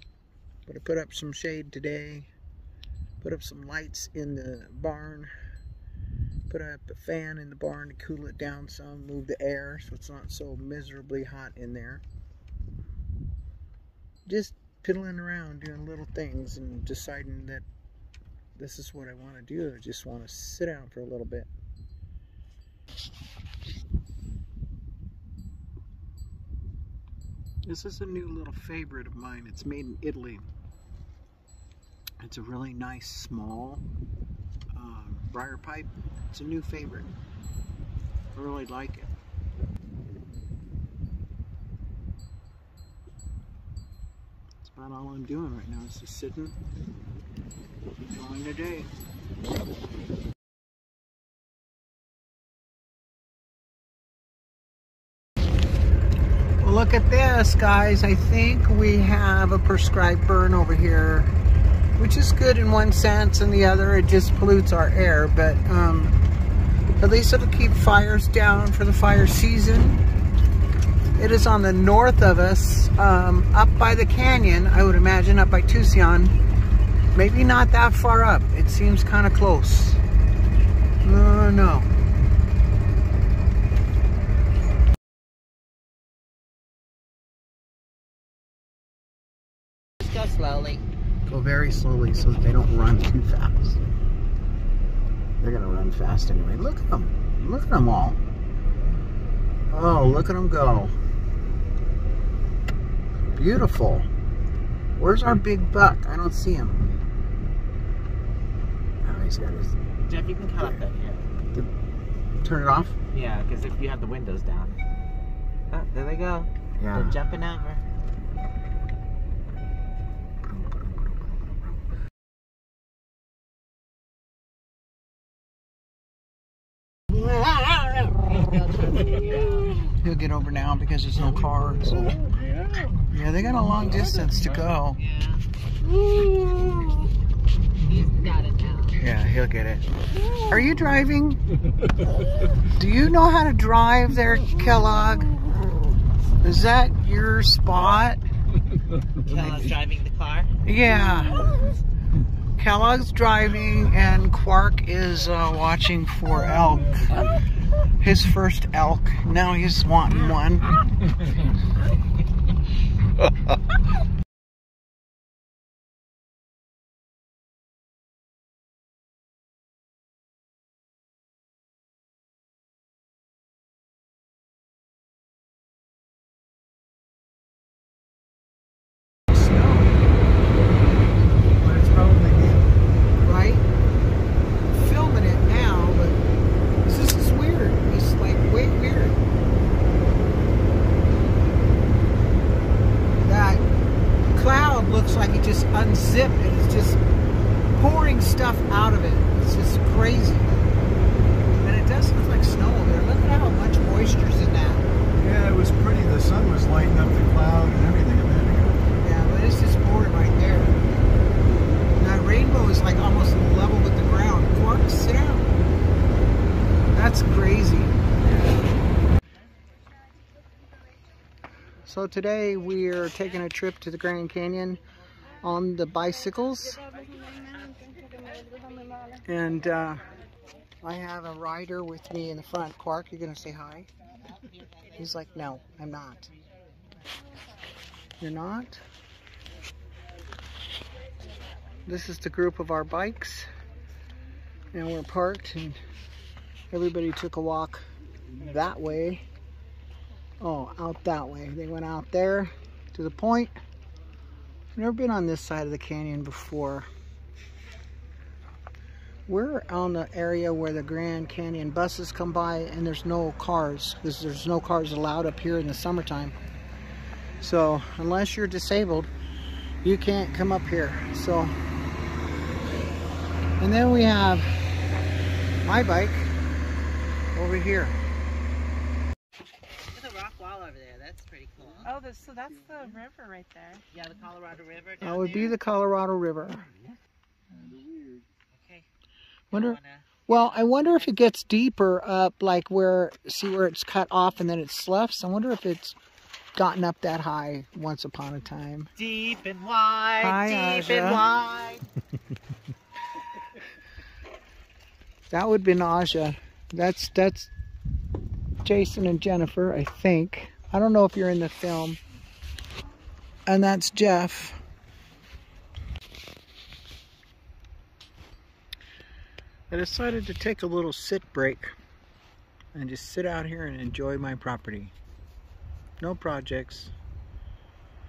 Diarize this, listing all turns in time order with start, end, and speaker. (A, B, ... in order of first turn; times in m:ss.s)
0:00.6-0:02.3 A
0:03.2-0:05.3 A
0:06.5-0:12.0 A
0:14.2-0:17.6 A
0:18.6-0:21.5 A
0:27.6-0:30.4 A
0:32.2-0:33.8 A
0:34.7-0:37.1 A
0:38.3-0:39.1 A
0:44.6-0:46.5 A
0:48.1-0:48.9 A
0:56.6-1:01.3 A
1:02.0-1:06.2 A
1:07.0-1:10.0 A
1:11.2-1:16.3 A
1:17.1-1:20.0 A
1:21.0-1:21.9 A
1:30.0-1:30.8 B
1:31.2-1:33.8 A
1:35.4-1:38.2 A
1:39.7-1:41.0 A
1:43.3-1:44.1 A
1:45.0-1:46.9 A
1:49.0-1:49.8 A
1:50.0-1:51.2 B
1:52.4-1:53.0 A
1:53.1-1:54.8 B
1:55.7-1:57.8 B
1:56.8-1:57.2 A
2:08.3-2:09.8 B
2:10.0-2:12.1 A
2:13.0-2:15.0 A
2:15.0-2:15.4 B
2:17.8-2:19.0 B
2:19.0-2:19.9 A
2:20.4-2:21.4 A
2:22.7-2:25.4 A
2:26.4-2:28.2 A
2:29.2-2:30.5 B
2:29.3-2:29.7 A
2:30.6-2:31.5 A
2:32.6-2:37.4 A
2:38.0-2:40.7 A
2:59.3-3:00.0 A
3:01.6-3:02.7 C
3:03.2-3:03.6 A
3:04.7-3:06.2 A
3:06.8-3:09.2 A
3:13.2-3:13.6 A
3:14.3-3:17.0 A
3:17.7-3:20.5 A
3:21.6-3:24.9 A
3:25.2-3:28.8 C
3:29.0-3:30.8 A
3:32.0-3:35.5 A
3:36.9-3:38.0 A
3:41.8-3:44.8 A
3:45.4-3:46.8 A
3:49.2-3:50.0 A
3:50.8-3:53.9 A
3:54.9-3:56.3 A
3:58.2-3:58.8 A
4:01.8-4:03.5 A
4:04.7-4:05.8 A
4:06.7-4:07.8 A
4:08.4-4:09.2 A
4:10.4-4:13.5 A
4:14.8-4:16.9 A
4:19.3-4:26.4 A
4:27.4-4:29.1 A
4:29.8-4:31.5 A
4:33.6-4:34.5 A
4:35.6-4:36.3 A
4:37.3-4:38.0 A
4:39.9-4:41.9 B
4:41.8-4:43.8 D
4:43.9-4:45.5 B
4:45.0-4:46.7 A
4:48.5-4:48.8 B
4:49.5-4:50.9 B
4:49.5-4:56.0 A
4:56.6-4:58.9 A
4:59.0-5:01.8 B
5:00.2-5:01.2 A
5:05.3-5:07.5 A
5:08.6-5:12.0 A
5:13.5-5:14.6 A
5:19.7-5:21.7 A
5:22.7-5:24.9 A
5:26.0-5:26.9 A